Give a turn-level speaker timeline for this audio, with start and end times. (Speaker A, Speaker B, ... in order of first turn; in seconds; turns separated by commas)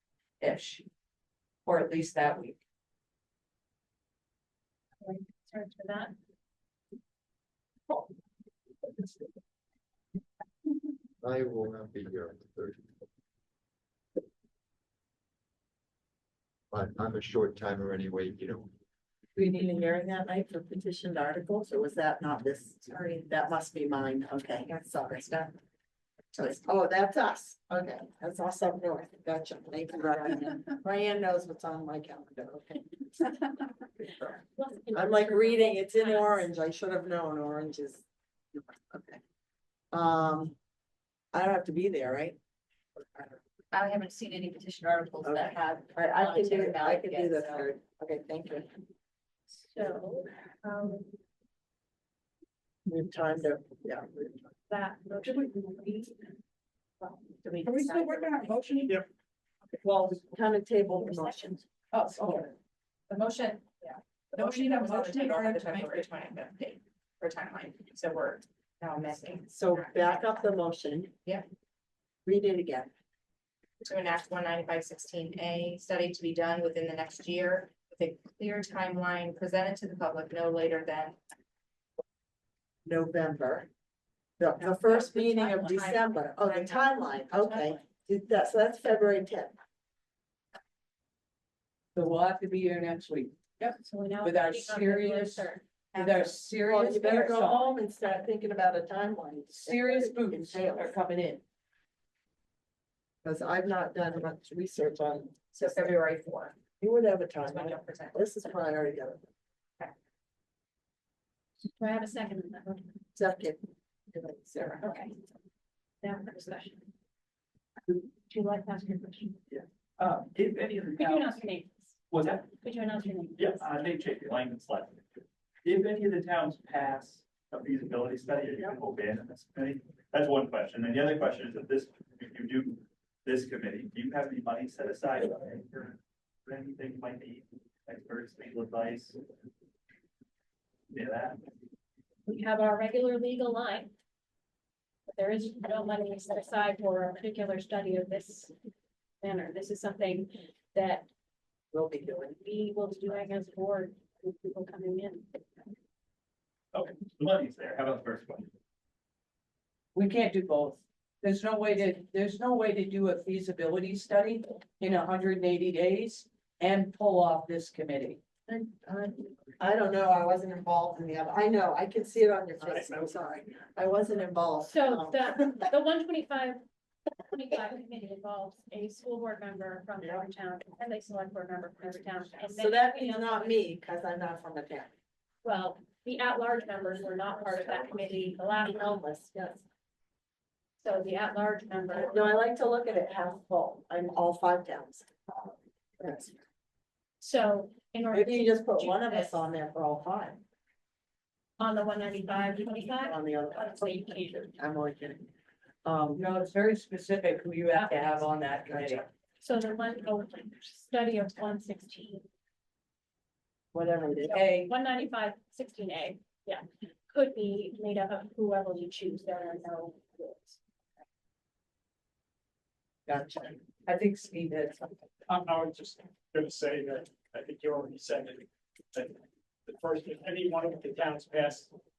Speaker A: 0.4-0.9, Speaker A: 1.6-2.6, Speaker B: 5.0-6.1, Speaker C: 11.2-12.9, Speaker C: 16.7-18.7, Speaker D: 19.4-25.6, Speaker D: 26.3-34.4, Speaker B: 34.6-36.5, Speaker D: 34.9-39.2, Speaker D: 39.9-40.6, Speaker D: 41.3-42.4, Speaker D: 43.0-43.4, Speaker E: 43.7-47.7, Speaker D: 45.2-48.7, Speaker B: 49.7-51.1, Speaker D: 52.9-54.5, Speaker B: 54.7-56.4, Speaker B: 57.0-57.3, Speaker E: 57.4-58.5, Speaker A: 57.6-59.0, Speaker D: 59.8-61.6, Speaker A: 61.9-62.5, Speaker E: 62.1-62.5, Speaker E: 63.1-70.3, Speaker A: 64.3-66.1, Speaker D: 69.5-71.2, Speaker D: 72.3-72.9, Speaker E: 73.8-81.2, Speaker D: 82.8-83.7, Speaker D: 84.4-89.5, Speaker E: 84.6-87.8, Speaker A: 92.0-97.7, Speaker B: 93.6-95.7, Speaker E: 96.0-96.2, Speaker D: 96.7-101.0, Speaker A: 99.5-101.4, Speaker D: 103.2-105.9, Speaker E: 105.5-106.6, Speaker D: 106.8-109.2, Speaker E: 107.5-108.2, Speaker B: 111.7-112.9, Speaker D: 113.2-113.6, Speaker D: 114.1-114.9, Speaker B: 116.0-116.9, Speaker B: 117.9-119.4, Speaker F: 119.5-121.4, Speaker B: 120.9-123.7, Speaker F: 122.1-122.4, Speaker F: 123.4-125.0, Speaker F: 125.6-139.2, Speaker F: 140.9-141.5, Speaker B: 142.3-143.9, Speaker B: 145.1-148.5, Speaker B: 149.2-151.1, Speaker D: 151.7-152.4, Speaker B: 152.4-155.4, Speaker F: 156.7-158.5, Speaker A: 159.9-168.2, Speaker D: 168.5-175.6, Speaker B: 174.7-176.6, Speaker B: 177.3-183.6, Speaker D: 182.5-184.9, Speaker B: 185.4-189.0, Speaker D: 187.5-189.6, Speaker B: 190.8-192.3, Speaker D: 191.9-196.3, Speaker B: 197.2-199.4, Speaker D: 198.1-200.4, Speaker B: 201.6-204.5, Speaker D: 202.6-205.3, Speaker D: 205.8-206.2, Speaker A: 206.2-209.1, Speaker B: 207.8-208.2, Speaker B: 209.4-212.2, Speaker D: 213.7-214.4, Speaker A: 214.3-214.7, Speaker B: 214.4-220.6, Speaker D: 223.1-223.6, Speaker A: 223.9-224.9, Speaker G: 225.3-231.7